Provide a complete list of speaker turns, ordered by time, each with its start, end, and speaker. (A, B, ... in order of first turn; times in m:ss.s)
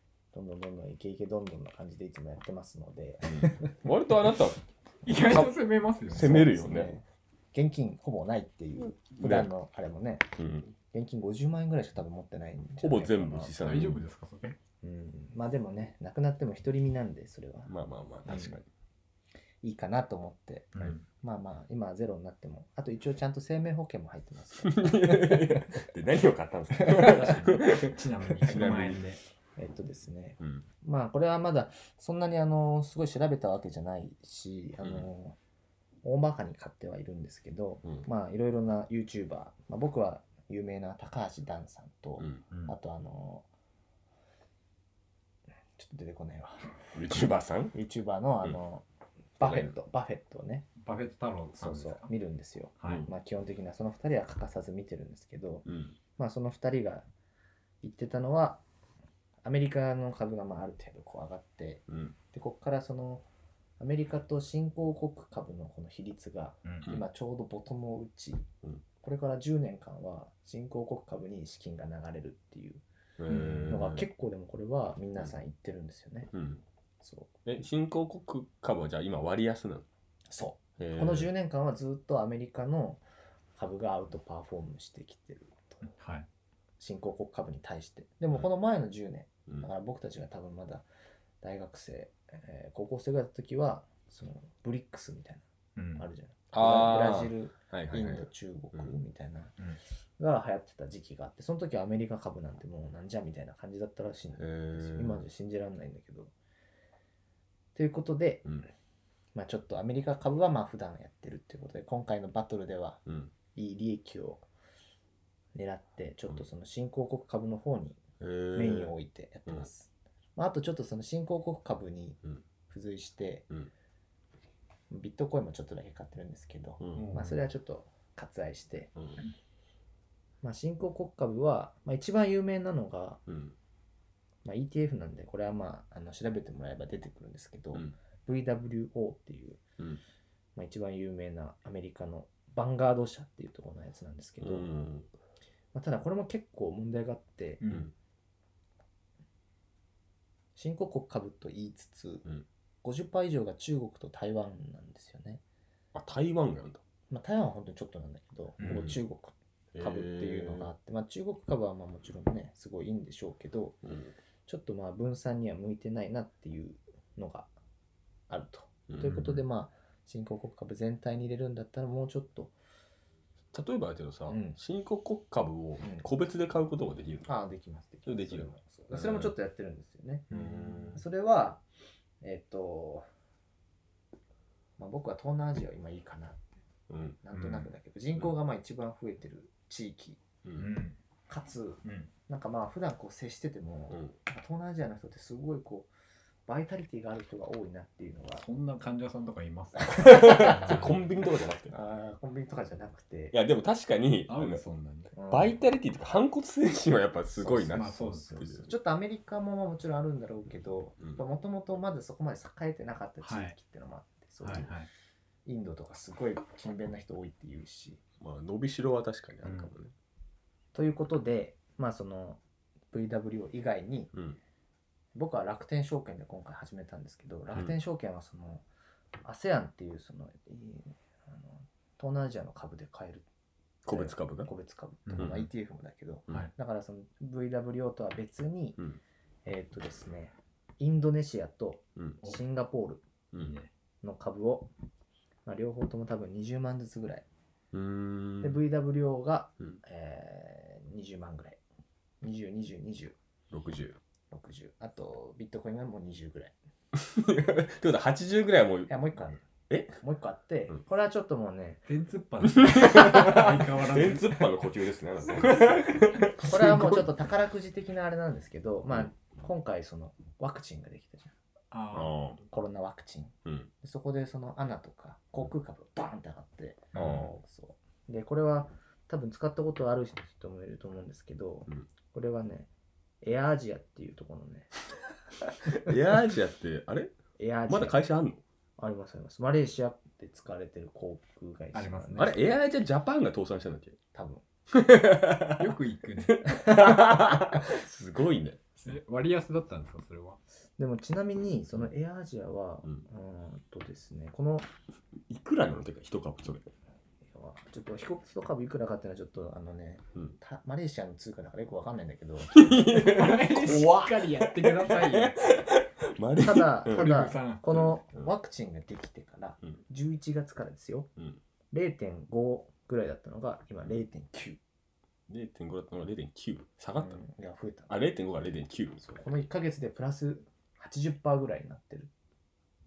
0:00.3-0:03.7 A
0:03.2-0:05.5 B
0:05.0-0:06.4 C
0:06.1-0:06.9 B
0:06.1-0:10.3 A
0:09.1-0:09.5 B
0:10.4-0:10.8 B
0:10.9-0:13.6 A
0:12.8-0:14.0 B
0:13.6-0:14.6 C
0:14.8-0:17.7 A
0:17.7-0:18.7 B
0:18.3-0:18.6 A
0:19.6-0:25.7 A
0:20.8-0:21.1 C
0:24.6-0:29.0 B
0:26.8-0:27.4 A
0:26.9-0:29.2 C
0:29.6-0:35.4 A
0:30.4-0:30.7 B
0:34.8-0:35.1 B
0:36.0-0:43.5 A
0:42.2-0:42.4 B
0:42.5-0:42.8 C
0:45.8-0:46.8 A
0:46.9-0:47.8 B
0:47.7-0:48.9 A
0:49.4-0:50.7 A
0:49.4-0:49.7 B
0:50.8-0:52.1 C
0:51.6-0:55.7 A
0:52.8-0:53.1 C
0:55.6-0:56.0 B
0:56.2-0:57.1 A
0:57.8-0:58.6 A
0:59.4-1:03.3 A
1:01.9-1:02.2 B
1:03.8-1:08.5 A
1:09.0-1:12.8 A
1:13.2-1:14.0 B
1:13.3-1:13.9 C
1:13.7-1:16.3 A
1:16.3-1:16.6 B
1:17.0-1:17.4 A
1:17.4-1:19.9 B
1:20.3-1:23.0 A
1:20.8-1:21.3 B
1:23.6-1:25.8 A
1:25.8-1:26.3 C
1:26.8-1:30.9 A
1:31.4-1:35.4 A
1:35.8-1:36.1 C
1:36.0-1:39.6 A
1:36.5-1:39.0 B
1:40.2-1:46.3 A
1:44.4-1:45.2 B
1:47.8-1:48.5 A
1:49.4-1:53.0 A
1:53.1-1:53.3 B
1:53.5-1:54.5 A
1:55.5-1:58.0 A
1:58.2-1:58.9 B
1:58.6-2:03.5 A
2:04.9-2:08.9 A
2:06.8-2:07.1 B
2:07.0-2:07.4 C
2:10.4-2:13.2 A
2:13.3-2:13.6 B
2:14.4-2:19.6 A
2:20.6-2:24.7 A
2:24.4-2:25.1 B
2:25.7-2:27.6 A
2:27.6-2:27.9 C
2:30.6-2:32.2 A
2:32.8-2:35.4 A
2:35.9-2:36.8 B
2:37.1-2:43.8 A
2:38.6-2:38.9 C
2:38.6-2:39.0 B
2:39.7-2:40.7 B
2:43.8-2:44.1 B
2:44.5-2:47.5 A
2:48.3-2:52.5 A
2:48.9-2:49.2 B
2:49.1-2:49.4 C
2:53.5-2:57.3 B
2:54.3-2:54.6 A
2:55.8-2:56.1 A
2:57.3-3:00.3 A
2:58.1-2:59.3 B
3:00.3-3:01.0 C
3:00.3-3:01.0 B
3:00.9-3:01.6 A
3:02.2-3:03.1 A
3:04.8-3:06.6 A
3:06.9-3:07.2 B
3:07.2-3:10.2 A
3:07.3-3:07.7 C
3:10.4-3:10.7 B
3:10.6-3:11.0 C
3:11.3-3:15.9 A
3:11.8-3:12.1 C
3:16.5-3:18.4 A
3:18.3-3:21.1 C
3:19.9-3:20.7 A
3:20.0-3:21.8 B
3:21.7-3:23.4 A
3:23.3-3:24.6 B
3:24.3-3:25.1 C
3:25.2-3:25.6 A
3:25.3-3:28.7 B
3:27.4-3:34.7 A
3:27.7-3:28.3 C
3:33.2-3:33.6 C
3:34.4-3:34.9 C
3:35.5-3:38.0 A
3:38.2-3:39.9 B
3:39.4-3:39.7 C
3:40.7-3:42.4 A
3:42.9-3:44.1 A
3:44.1-3:44.4 B
3:45.2-3:48.7 A
3:49.2-3:53.3 A
3:53.8-3:54.5 B
3:53.9-3:58.8 A
3:55.1-3:55.5 C
3:55.2-3:55.5 B
3:59.4-4:03.0 A
4:03.3-4:03.6 B
4:03.4-4:03.7 C
4:04.0-4:04.7 A
4:05.4-4:07.3 A
4:07.7-4:08.6 B
4:08.4-4:11.6 A
4:12.2-4:13.2 A
4:13.5-4:14.0 B
4:14.3-4:16.5 A
4:17.0-4:18.9 B
4:18.9-4:19.4 A
4:19.7-4:20.0 B
4:20.0-4:21.8 A
4:21.9-4:24.4 C
4:22.4-4:27.1 B
4:26.4-4:31.3 A
4:31.7-4:32.2 C
4:31.9-4:32.4 B
4:32.5-4:42.7 A
4:33.4-4:33.7 B
4:37.0-4:37.3 B
4:37.0-4:37.3 C
4:43.2-4:44.7 A
4:45.4-4:46.0 A
4:45.7-4:47.2 B
4:47.4-4:48.0 A
4:47.7-4:48.4 B
4:48.8-4:52.4 A
4:51.7-4:52.4 C
4:52.2-4:54.0 B
4:54.1-4:54.4 A
4:54.7-4:55.8 B
4:55.6-4:56.4 C
4:56.3-4:58.9 B
4:56.5-4:57.6 A
4:58.8-5:00.4 C
5:00.8-5:04.7 A
5:05.3-5:06.7 B
5:07.2-5:13.1 A
5:12.5-5:17.1 B
5:12.9-5:15.4 C
5:16.4-5:21.1 A
5:16.9-5:17.7 C
5:17.7-5:18.3 B
5:21.7-5:24.6 A
5:25.3-5:27.2 B
5:27.0-5:27.9 A
5:27.9-5:29.2 B
5:29.1-5:32.1 A